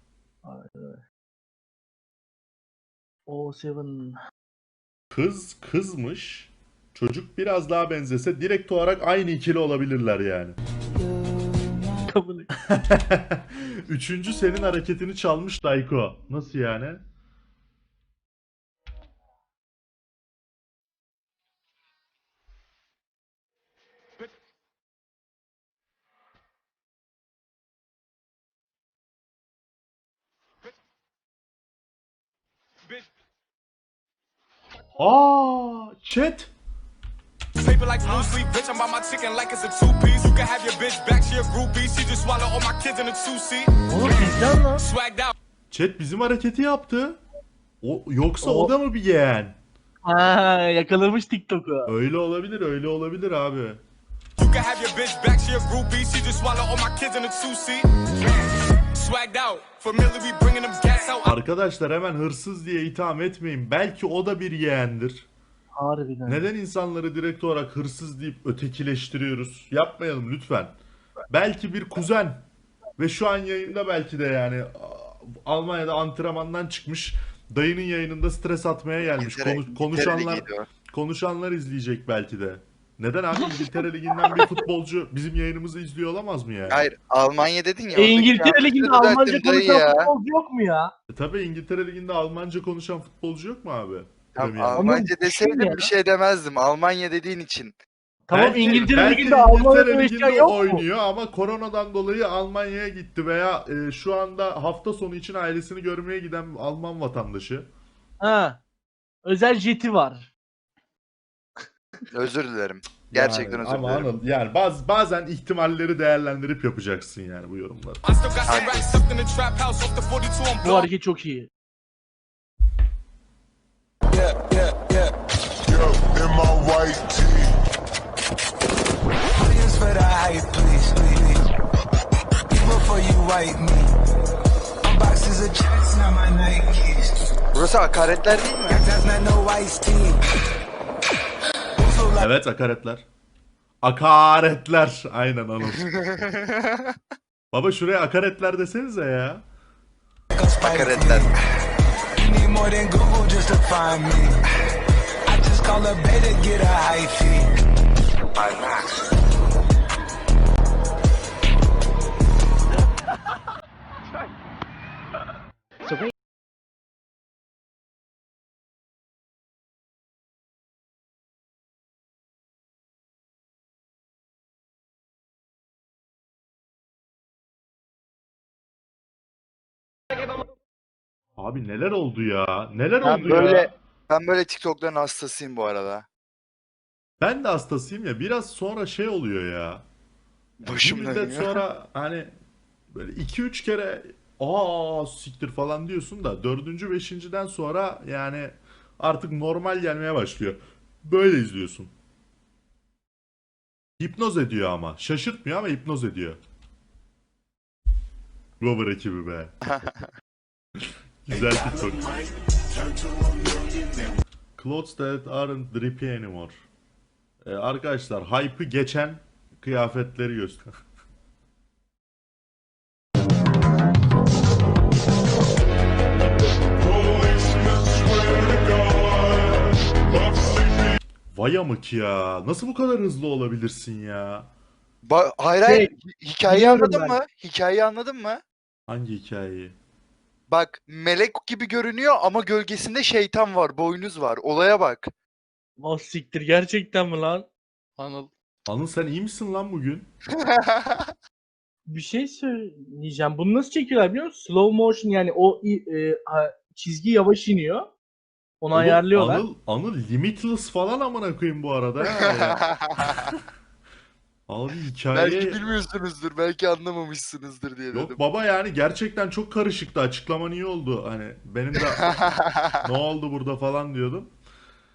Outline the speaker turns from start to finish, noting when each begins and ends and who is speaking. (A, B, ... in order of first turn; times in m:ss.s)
0:00.4-0:01.0 A
0:03.3-0:04.2 A
0:05.1-0:10.6 B
0:12.1-0:12.5 A
0:12.7-0:17.0 B
0:35.0-0:36.5 B
0:37.6-0:45.3 C
0:43.9-0:44.8 A
0:45.7-0:47.2 B
0:47.8-0:49.6 B
0:48.4-0:48.7 A
0:50.0-0:51.9 A
0:51.9-0:53.8 B
0:54.4-1:01.3 C
1:01.2-1:05.2 B
1:05.7-1:06.4 A
1:06.3-1:10.7 B
1:11.3-1:12.4 B
1:13.0-1:26.9 B
1:19.0-1:20.7 D
1:26.7-1:30.1 D
1:27.9-1:30.9 A
1:31.1-1:34.9 B
1:34.3-1:37.8 D
1:34.7-1:35.9 A
1:38.3-1:40.8 A
1:38.3-1:47.7 B
1:48.2-1:48.6 A
1:49.2-1:50.3 A
1:52.1-1:54.1 D
1:53.1-1:58.0 B
1:58.0-2:00.9 C
1:58.5-1:59.0 D
2:00.6-2:01.5 A
2:04.1-2:05.1 E
2:05.7-2:07.4 F
2:09.4-2:11.4 E
2:12.5-2:13.9 E
2:14.8-2:17.1 E
2:17.5-2:18.8 D
2:18.7-2:20.2 E
2:21.8-2:22.3 E
2:22.2-2:23.0 B
2:23.8-2:25.8 B
2:25.8-2:26.9 D
2:27.5-2:29.4 B
2:30.3-2:31.3 E
2:30.6-2:31.3 D
2:32.2-2:34.4 E
2:35.2-2:37.5 E
2:38.4-2:38.7 D
3:01.4-3:03.7 B
3:03.0-3:06.0 D
3:07.2-3:09.8 B
3:10.6-3:11.6 D
3:10.7-3:12.3 B
3:12.9-3:21.9 B
3:24.0-3:26.4 B
3:28.6-3:29.5 B
3:29.6-3:30.1 D
3:31.2-3:32.1 B
3:34.6-3:36.6 B
3:37.4-3:40.7 B
3:47.0-3:49.1 F
3:51.3-3:54.5 B
3:55.0-3:58.4 D
3:55.6-3:55.9 A
3:56.5-3:57.2 A
3:58.9-3:59.7 B
4:00.5-4:05.1 D
4:05.8-4:07.5 A
4:08.0-4:08.3 C
4:08.7-4:10.1 B
4:10.4-4:11.1 D
4:11.9-4:17.9 A
4:18.6-4:19.4 A
4:18.7-4:22.6 B
4:22.0-4:23.3 D
4:24.5-4:25.6 B
4:25.1-4:28.2 D
4:27.9-4:32.2 B
4:31.9-4:32.8 D
4:32.8-4:34.3 B